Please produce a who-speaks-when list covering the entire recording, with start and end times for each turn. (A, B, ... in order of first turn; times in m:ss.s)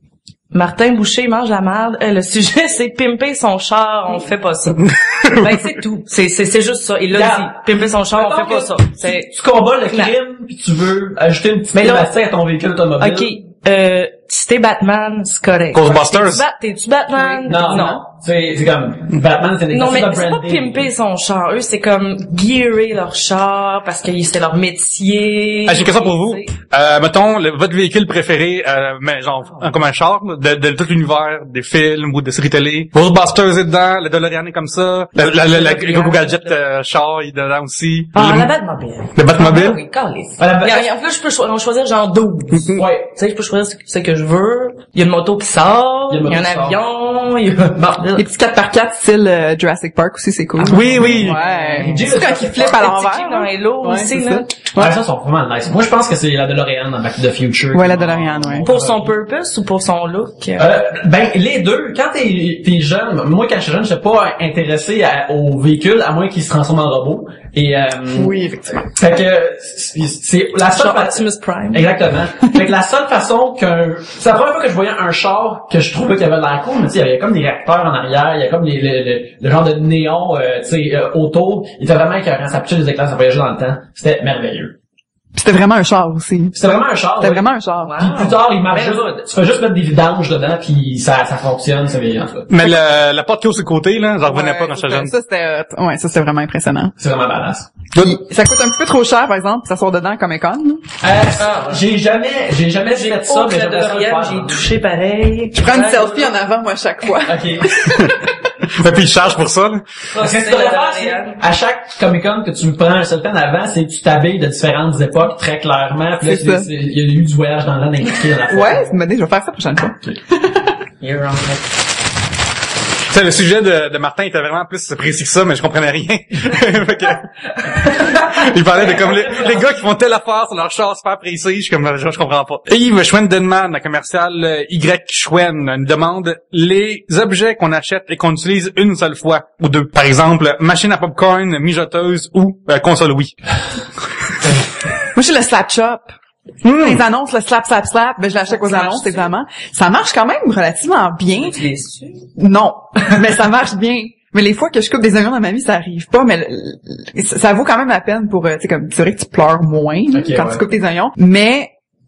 0:00.5-0:09.3 A
0:04.8-0:05.6 B
0:07.1-0:13.3 C
0:11.7-0:12.1 A
0:13.0-0:18.0 A
0:15.7-0:16.4 B
0:17.4-0:20.9 C
0:17.5-0:18.0 D
0:19.7-0:26.6 A
0:25.7-0:38.5 B
0:29.4-0:29.8 A
0:35.3-0:36.6 A
0:38.1-0:48.2 A
0:39.1-0:39.8 B
0:40.4-0:40.9 C
0:42.7-0:43.1 C
0:46.1-0:46.8 C
0:47.7-0:48.1 C
0:48.2-0:55.0 D
0:50.6-0:52.9 C
0:50.7-0:51.4 B
0:51.4-0:54.5 A
0:54.7-0:59.1 C
0:57.7-0:58.7 D
0:58.6-1:00.7 A
1:00.6-1:24.8 C
1:08.1-1:08.9 D
1:10.7-1:11.9 A
1:25.3-1:26.6 D
1:26.5-1:32.5 C
1:27.2-1:28.0 D
1:27.8-1:29.1 A
1:32.5-1:35.1 B
1:34.2-1:36.9 D
1:37.0-1:37.7 C
1:37.9-1:38.2 B
1:38.0-1:40.9 D
1:41.0-1:44.7 C
1:41.3-1:41.8 A
1:42.8-1:46.3 A
1:45.5-1:48.2 D
1:47.2-1:48.1 C
1:48.7-1:49.8 B
1:50.1-1:51.4 A
1:50.2-1:59.0 C
1:56.2-1:56.7 D
1:58.5-2:00.7 D
2:01.0-2:01.7 A
2:03.1-2:23.4 B
2:08.8-2:09.8 C
2:25.1-2:26.1 D
2:26.6-2:27.0 B
2:26.6-2:31.6 D
2:28.4-2:29.3 A
2:31.4-2:32.2 A
2:32.4-2:41.7 D
2:40.1-2:40.6 C